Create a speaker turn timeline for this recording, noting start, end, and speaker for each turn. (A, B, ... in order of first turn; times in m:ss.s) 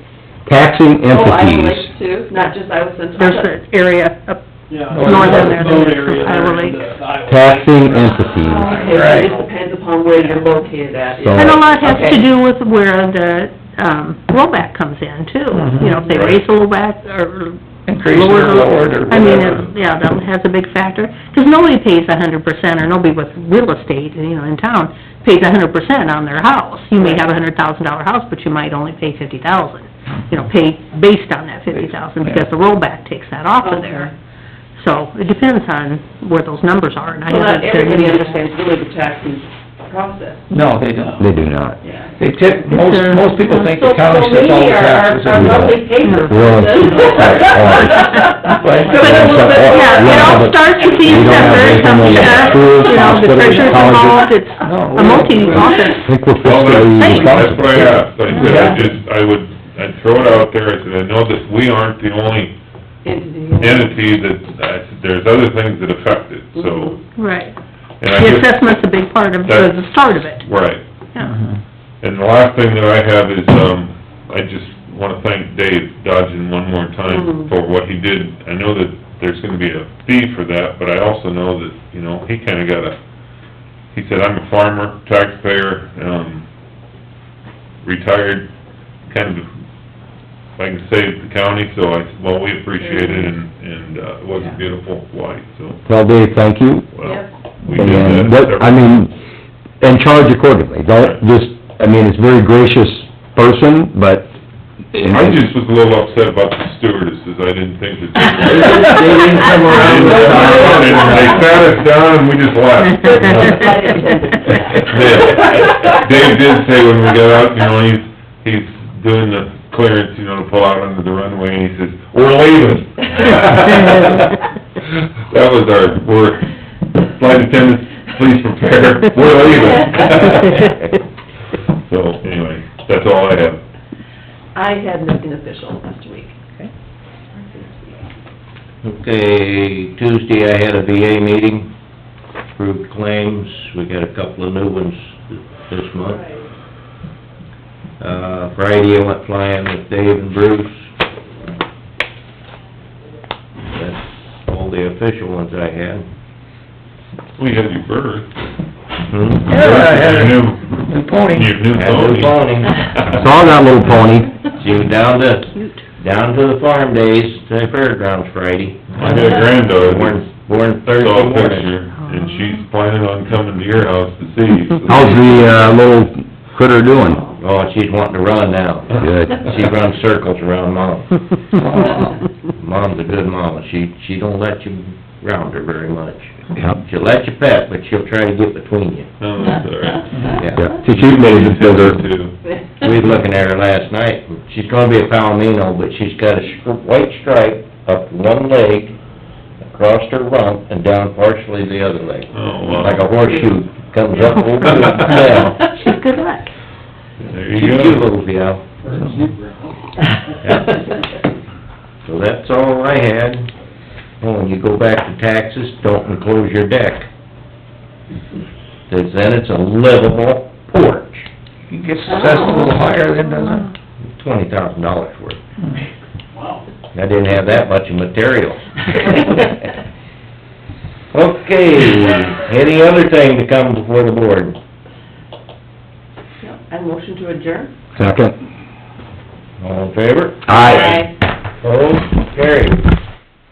0:00.5-0:01.9 A
0:01.1-0:03.5 B
0:03.2-0:04.4 C
0:04.7-0:09.5 D
0:04.8-0:06.2 E
0:05.0-0:06.8 C
0:07.3-0:08.8 A
0:08.4-0:12.3 B
0:08.7-0:09.4 E
0:11.2-0:12.0 A
0:11.3-0:34.1 C
0:15.5-0:16.0 E
0:15.8-0:16.1 B
0:16.1-0:16.4 F
0:17.9-0:19.7 E
0:31.7-0:32.5 E
0:33.6-0:34.1 B
0:34.8-0:38.4 C
0:37.3-0:40.5 B
0:40.5-0:41.3 E
0:41.2-0:41.8 A
0:41.8-0:42.2 B
0:42.2-0:46.0 E
0:42.8-0:43.7 C
0:43.6-0:53.7 B
0:45.4-0:48.0 A
0:46.0-0:46.5 C
0:47.9-0:56.1 C
0:48.5-0:49.4 E
0:49.0-0:54.3 A
0:52.2-0:53.0 F
0:52.6-0:55.8 E
0:56.0-0:58.1 A
0:56.4-1:02.6 F
0:57.0-0:57.5 C
0:58.3-0:58.7 C
0:58.3-0:58.9 E
1:03.0-1:04.0 B
1:03.6-1:07.0 F
1:06.6-1:07.0 B
1:07.2-1:07.6 C
1:08.0-1:08.6 F
1:08.1-1:10.4 C
1:09.4-1:10.8 F
1:11.2-1:11.4 C
1:12.0-1:23.0 F
1:17.1-1:17.5 B
1:23.9-1:26.5 F
1:27.8-1:28.5 F
1:29.1-1:29.5 F
1:30.6-1:35.8 F
1:32.8-1:33.3 B
1:35.9-1:36.9 A
1:36.9-1:38.9 F
1:37.0-1:37.3 B
1:37.7-1:39.1 A
1:39.8-1:44.3 A
1:44.9-1:45.4 A
1:45.1-1:53.7 F
1:48.4-1:51.2 A
1:48.5-1:51.0 G
1:50.1-1:51.4 B
1:52.9-1:55.3 B
1:54.5-2:10.7 F
2:09.4-2:10.4 B
2:10.4-2:10.8 C
2:11.8-2:13.6 F
2:14.6-2:16.4 B
2:17.3-2:18.0 B
2:18.8-2:21.7 G
2:22.6-2:26.2 G
2:26.0-2:26.4 B
2:28.0-2:30.9 G
2:33.7-2:36.1 G
2:37.4-2:38.3 F
2:39.1-2:39.5 G
2:39.4-2:41.6 E
2:39.5-2:43.4 F
2:41.7-2:42.9 G
2:43.1-2:44.3 A
2:44.5-2:51.8 G
2:45.6-2:45.8 C
2:48.9-2:50.3 F
2:50.8-2:55.8 F
2:52.0-2:52.3 C
2:54.9-2:57.2 A
2:57.0-2:57.4 B
2:57.4-3:01.1 G
2:59.0-2:59.5 A
3:01.6-3:02.1 E
3:01.7-3:09.1 G
3:09.2-3:12.4 F
3:09.4-3:10.0 B
3:10.1-3:10.4 E
3:10.3-3:10.6 G
3:10.5-3:12.0 A
3:12.8-3:19.0 G
3:19.7-3:25.7 G
3:22.3-3:23.1 F
3:24.2-3:26.5 C
3:27.2-3:28.1 F
3:27.5-3:28.6 G
3:28.9-3:29.3 D
3:29.0-3:29.3 E
3:30.5-3:30.8 G
3:32.0-3:33.5 G
3:34.2-3:37.1 G
3:38.9-3:41.3 G
3:41.7-3:43.7 E
3:42.1-3:42.8 B
3:44.0-3:45.4 G
3:45.6-3:45.9 E
3:46.9-3:49.4 G
3:49.1-3:49.5 B
3:51.1-3:54.6 G
3:56.4-3:57.7 B
3:58.0-3:58.4 A
3:59.6-4:00.9 G
4:00.5-4:01.0 A
4:00.5-4:01.1 B
4:01.6-4:02.8 G